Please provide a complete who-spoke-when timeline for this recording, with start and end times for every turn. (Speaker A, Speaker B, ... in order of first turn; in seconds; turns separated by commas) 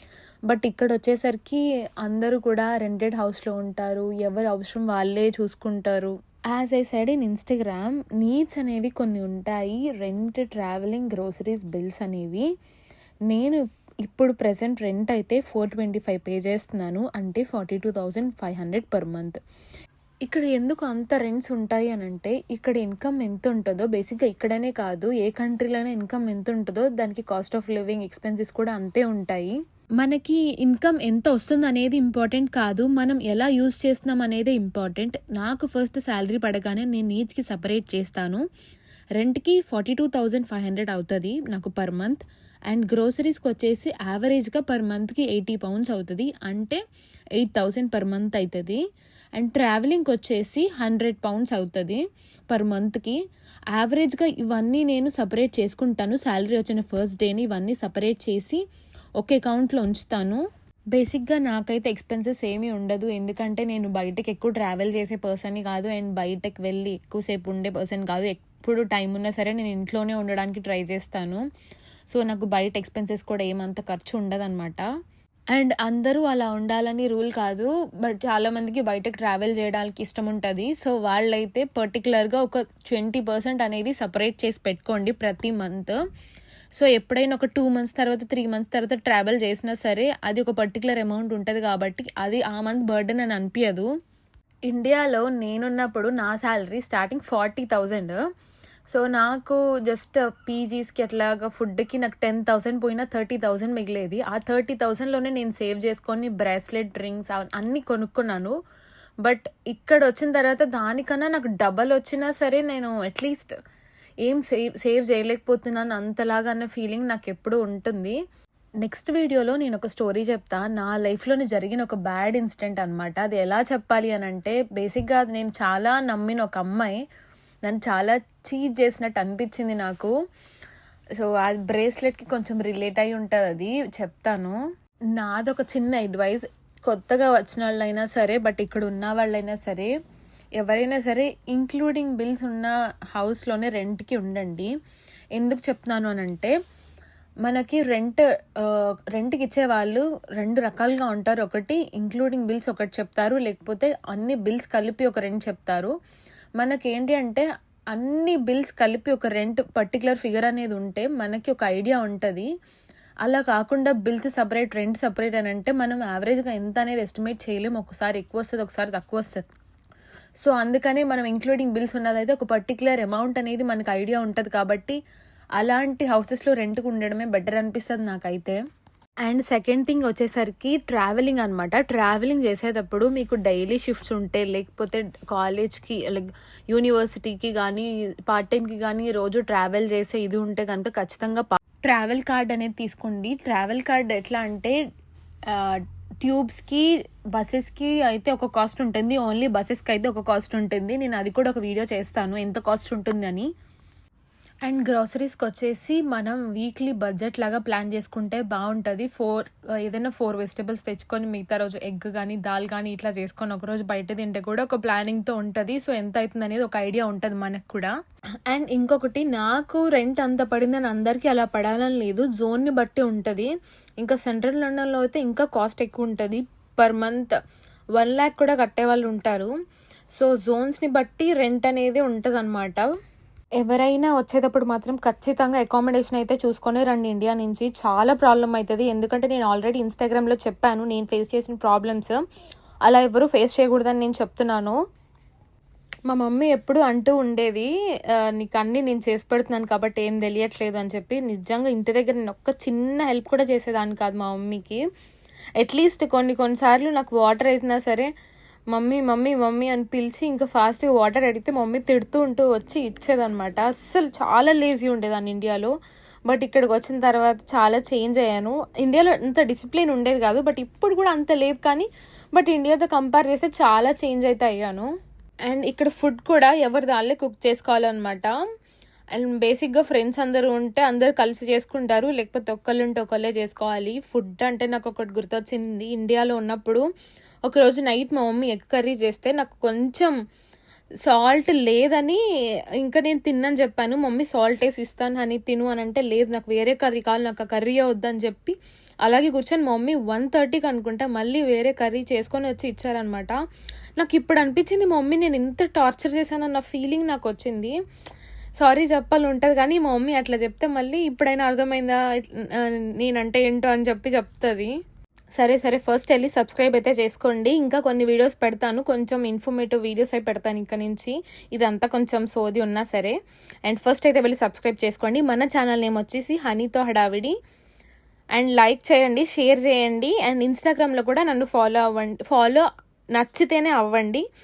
Speaker A: 0.5-12.4, Speaker A: 13.3-19.4, Speaker A: 20.3-38.4, Speaker A: 39.2-46.8, Speaker A: 47.4-48.8, Speaker A: 49.4-53.1, Speaker A: 53.7-58.6, Speaker A: 59.2-71.4, Speaker A: 72.1-74.8, Speaker A: 75.5-86.0, Speaker A: 86.7-93.9, Speaker A: 94.7-98.2, Speaker A: 98.9-108.5, Speaker A: 109.2-113.5, Speaker A: 114.2-118.2, Speaker A: 118.8-127.0, Speaker A: 127.7-130.1, Speaker A: 131.2-134.6, Speaker A: 135.2-139.9, Speaker A: 140.6-144.7, Speaker A: 145.3-146.5, Speaker A: 147.4-155.9, Speaker A: 156.6-162.5, Speaker A: 163.2-169.5, Speaker A: 170.4-174.9, Speaker A: 175.6-178.6, Speaker A: 179.2-194.8, Speaker A: 195.5-203.5, Speaker A: 204.6-217.9, Speaker A: 218.5-227.3, Speaker A: 227.9-229.5, Speaker A: 230.1-232.9, Speaker A: 233.6-242.2, Speaker A: 242.8-244.8, Speaker A: 246.1-254.8, Speaker A: 255.6-258.1, Speaker A: 258.7-265.7, Speaker A: 266.3-274.9, Speaker A: 275.5-278.3, Speaker A: 279.1-286.8, Speaker A: 287.4-290.1, Speaker A: 291.0-292.2, Speaker A: 292.8-303.4, Speaker A: 304.0-307.7, Speaker A: 308.6-314.7, Speaker A: 315.4-323.1, Speaker A: 323.7-327.3, Speaker A: 328.3-334.2